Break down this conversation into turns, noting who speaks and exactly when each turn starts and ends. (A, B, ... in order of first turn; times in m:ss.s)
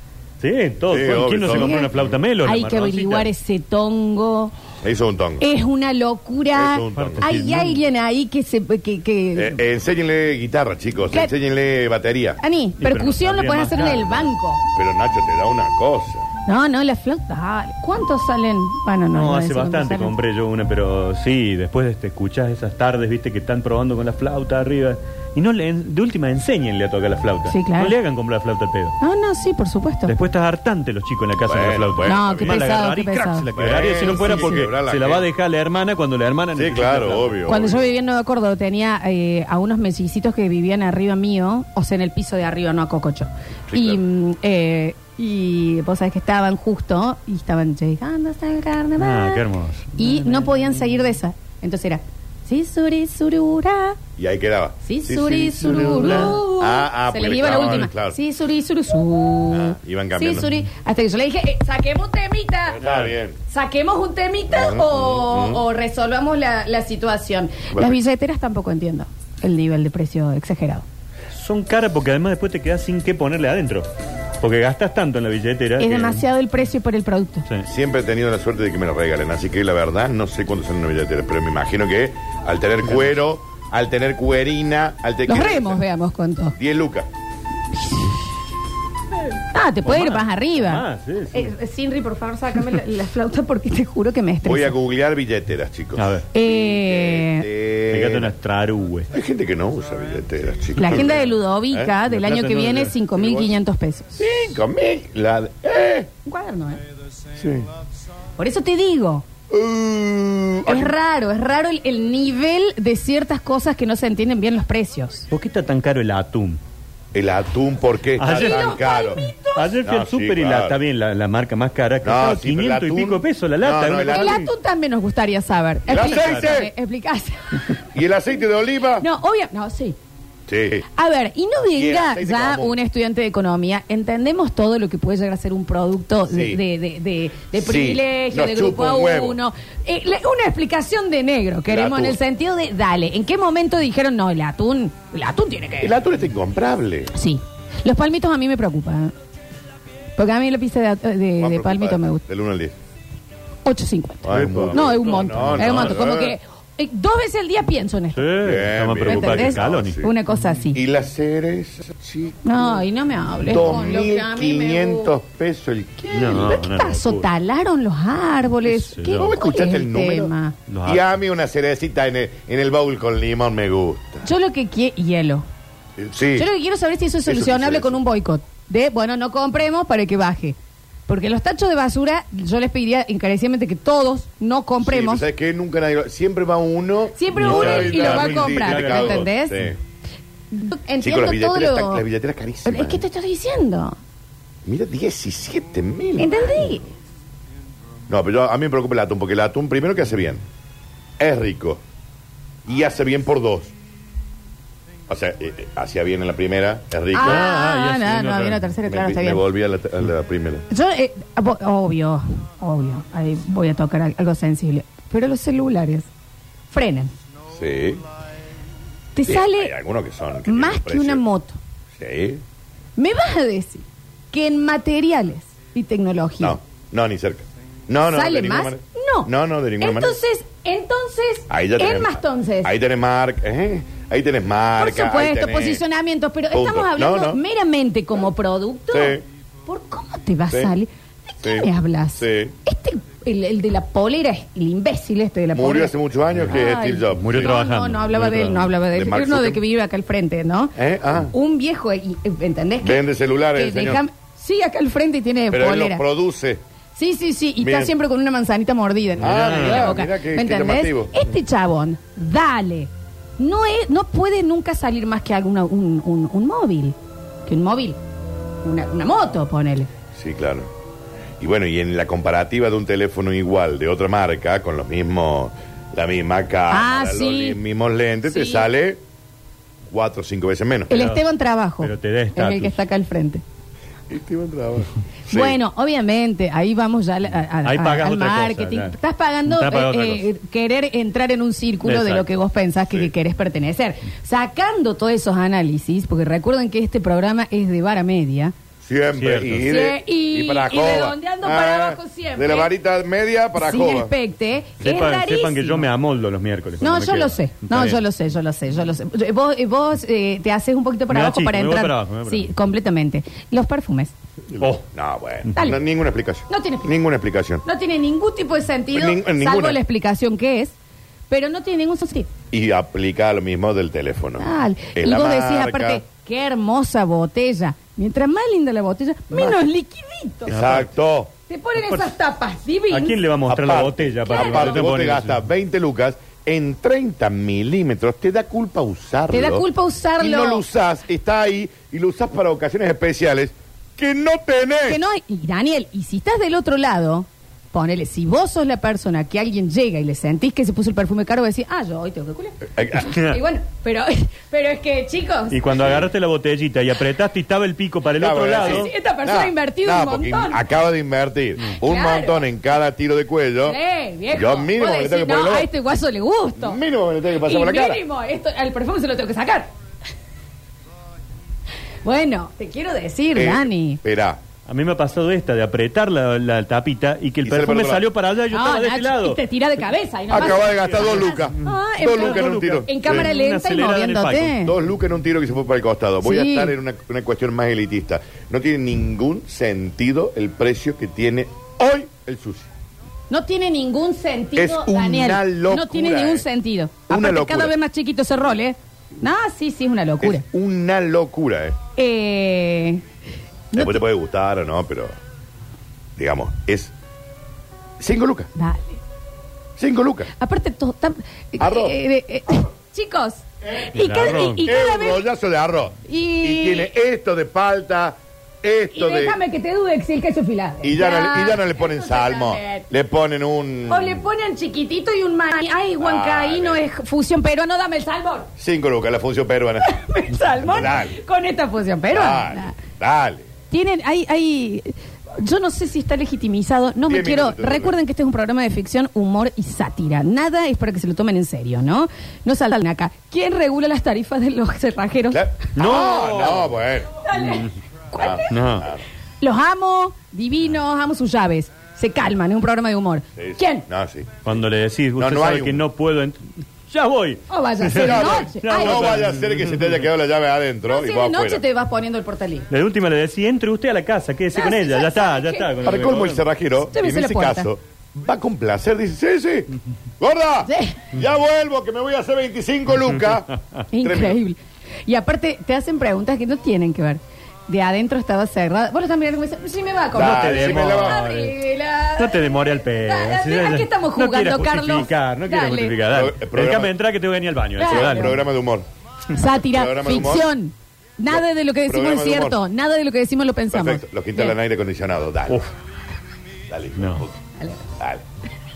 0:00.4-0:03.3 A
0:00.9-0:02.1 B
0:01.4-0:01.9 C
0:02.4-0:04.5 C
0:04.8-0:05.4 B
0:05.4-0:09.6 C
0:06.5-0:07.3 B
0:06.9-0:07.8 A
0:09.4-0:12.4 B
0:12.4-0:14.6 C
0:12.8-0:14.3 A
0:14.8-0:16.3 B
0:16.4-0:20.1 C
0:19.1-0:29.0 A
0:27.5-0:27.9 C
0:29.0-0:30.1 C
0:30.1-0:37.6 A
0:31.4-0:32.7 B
0:32.0-0:34.7 C
0:33.5-0:35.2 B
0:36.5-0:37.9 B
0:37.4-0:49.4 C
0:43.7-0:44.0 B
0:49.0-0:50.5 A
0:50.0-0:54.0 C
0:54.2-0:58.2 B
0:54.8-1:02.8 C
0:55.6-0:56.4 A
0:57.4-0:57.9 A
0:59.5-1:00.5 B
1:02.8-1:03.1 A
1:02.8-1:03.4 B
1:03.5-1:10.8 C
1:04.5-1:05.6 B
1:07.7-1:08.0 B
1:11.3-1:13.9 A
1:14.4-1:16.2 A
1:15.8-1:17.4 C
1:17.6-1:25.8 B
1:25.3-1:26.6 C
1:26.6-1:27.1 B
1:27.8-1:28.1 C
1:29.5-1:34.8 C
1:29.8-1:31.5 A
1:34.4-1:38.3 B
1:36.0-1:36.3 A
1:36.3-1:37.5 C
1:37.9-1:39.1 A
1:39.1-1:41.9 B
1:40.8-1:44.2 C
1:40.8-1:41.2 A
1:42.0-1:42.9 A
1:43.2-1:43.5 B
1:44.2-1:46.1 B
1:46.2-1:46.8 C
1:47.4-1:47.7 B
1:48.4-1:49.2 C
1:49.5-1:50.9 B
1:50.6-1:55.3 C
1:55.3-1:56.6 A
1:57.1-1:59.2 B
1:58.2-2:04.5 A
1:58.3-1:59.8 C
1:59.8-2:00.8 B
2:02.0-2:04.4 B
2:04.1-2:07.8 C
2:05.9-2:06.7 B
2:06.0-2:06.6 A
2:07.9-2:09.1 B
2:09.0-2:10.0 C
2:10.5-2:10.8 B
2:10.9-2:26.0 C
2:11.7-2:12.8 B
2:16.3-2:16.6 B
2:17.5-2:19.4 B
2:21.7-2:22.2 B
2:25.8-2:27.1 B
2:27.1-2:29.1 C
2:30.2-2:32.2 C
2:31.4-2:32.8 B
2:33.6-2:38.3 C
2:34.2-2:36.4 B
2:34.3-2:36.0 A
2:38.1-2:40.0 A
2:38.4-2:40.1 B
2:39.0-2:40.8 C
2:40.7-2:42.8 B
2:42.4-2:45.1 C
2:43.4-2:46.6 B
2:46.1-2:50.6 C
2:46.1-2:47.3 A
2:48.7-2:49.4 A
2:49.2-2:50.3 B
2:50.7-2:51.1 A
2:50.8-2:54.3 B
2:54.2-2:55.5 C
2:56.0-2:56.5 B
2:56.3-3:00.6 C
2:57.2-2:58.0 B
3:01.1-3:05.2 C
3:04.8-3:09.8 B
3:07.2-3:09.6 C
3:07.4-3:09.3 A
3:10.5-3:12.0 C
3:11.0-3:13.0 B
3:12.6-3:14.0 C
3:14.6-3:16.7 B
3:16.2-3:16.9 C
3:18.1-3:20.4 B
3:21.2-3:21.8 B
3:22.6-3:23.7 B
3:25.1-3:27.5 B
3:27.1-3:29.4 C
3:27.2-3:28.7 A
3:28.9-3:30.6 B
3:30.7-3:36.1 C
3:36.7-3:37.1 C
3:37.5-3:38.0 B
3:39.1-3:39.8 C
3:39.2-3:41.2 B
3:40.4-3:41.6 C
3:42.0-3:42.4 B
3:43.0-3:46.6 C
3:46.4-3:50.2 B
3:48.1-3:52.7 C
3:51.5-3:55.8 B
3:54.8-4:05.9 C
3:56.5-3:57.4 B
3:58.9-3:59.2 B
4:01.4-4:02.5 B
4:05.5-4:07.6 B
4:06.5-4:10.8 C
4:07.1-4:08.7 A
4:08.8-4:09.6 B
4:10.8-4:11.3 B
4:11.3-4:13.0 C
4:12.8-4:14.0 B
4:13.5-4:16.0 C
4:15.5-4:16.6 B
4:16.9-4:28.0 C
4:17.6-4:17.9 B
4:19.2-4:20.0 A
4:19.2-4:21.2 B
4:28.6-4:29.9 C
4:30.1-4:30.7 B
4:31.4-4:39.0 B
4:36.7-4:37.6 C
4:38.3-4:38.7 C
4:39.9-4:40.9 B
4:40.9-4:43.4 C
4:40.9-4:41.2 A
4:41.8-4:42.8 A
4:44.1-4:45.6 B
4:45.3-4:58.5 C
4:47.6-4:49.0 A
4:49.5-4:50.2 A
4:51.8-4:52.3 A
4:58.8-5:04.1 B
4:59.1-4:59.7 A
4:59.6-5:02.7 C
5:03.6-5:05.9 C
5:04.8-5:08.0 A
5:06.8-5:14.1 C
5:11.1-5:12.5 A
5:14.5-5:17.6 B
5:15.6-5:15.8 C
5:16.5-5:16.9 C
5:17.6-5:20.8 C
5:18.9-5:19.8 B
5:21.3-5:22.3 C
5:22.5-5:26.0 B
5:24.4-5:30.5 C
5:29.3-5:29.6 B
5:30.4-5:31.3 B
5:30.5-5:30.9 A
5:31.5-5:33.2 C
5:32.9-5:35.4 A
5:33.5-5:39.7 B
5:34.3-5:34.8 C
5:39.3-5:40.6 C
5:40.2-5:45.0 B
5:44.9-5:55.6 C
5:52.7-5:53.1 B
5:55.5-5:58.9 A
5:55.7-5:56.1 B
5:58.2-6:03.8 B
5:58.6-6:00.6 C
6:01.8-6:02.4 C
6:03.6-6:06.8 C
6:04.3-6:05.7 B
6:06.6-6:08.0 B
6:07.4-6:09.7 C
6:12.0-6:14.0 C
6:13.4-6:14.4 B
6:14.7-6:19.4 A
6:17.4-6:18.0 B
6:18.5-6:24.7 C
6:20.3-6:23.3 B
6:20.4-6:24.6 A
6:24.6-6:32.7 B
6:26.2-6:26.7 C
6:33.3-6:40.4 C
6:34.6-6:36.4 B
6:37.1-6:37.7 B
6:40.2-6:41.8 B
6:42.0-6:43.0 C
6:43.7-6:44.0 C
6:43.7-6:45.1 B
6:46.2-6:46.9 B
6:48.0-6:48.5 B
6:48.6-6:49.0 C
6:49.8-6:50.3 B
6:50.4-6:55.2 C
6:51.6-6:52.0 B
6:53.9-6:54.7 A
6:54.6-6:59.4 B
6:56.1-6:56.9 C
6:58.9-7:02.8 C
7:00.8-7:04.2 B
7:03.9-7:08.5 C
7:06.0-7:06.8 B
7:08.6-7:09.9 B
7:09.8-7:12.8 C
7:10.6-7:11.2 B
7:12.1-7:13.4 B
7:13.7-7:25.4 C
7:17.1-7:17.9 B
7:25.3-7:27.1 B
7:25.7-7:26.7 A
7:27.2-7:28.5 C
7:27.4-7:27.7 A
7:28.1-7:29.0 B
7:28.5-7:28.9 A
7:29.4-7:33.9 C
7:33.4-7:34.5 B
7:34.4-7:40.0 A
7:35.2-7:35.8 B
7:37.5-7:39.2 C
7:37.9-7:41.6 B
7:40.9-7:42.7 C
7:42.7-7:46.4 A
7:44.5-7:45.8 C
7:45.8-7:54.4 B
7:46.8-7:47.7 C
7:50.6-7:51.0 C
7:53.9-8:06.0 C
8:00.1-8:01.2 B
8:00.1-8:01.6 A
8:02.2-8:08.4 A
8:06.1-8:06.9 B
8:07.8-8:08.4 C
8:07.8-8:08.9 B
8:09.3-8:14.6 C
8:09.4-8:10.5 B
8:11.3-8:12.6 B
8:13.7-8:15.6 B
8:16.7-8:17.4 B
8:17.0-8:17.2 A
8:18.0-8:18.2 B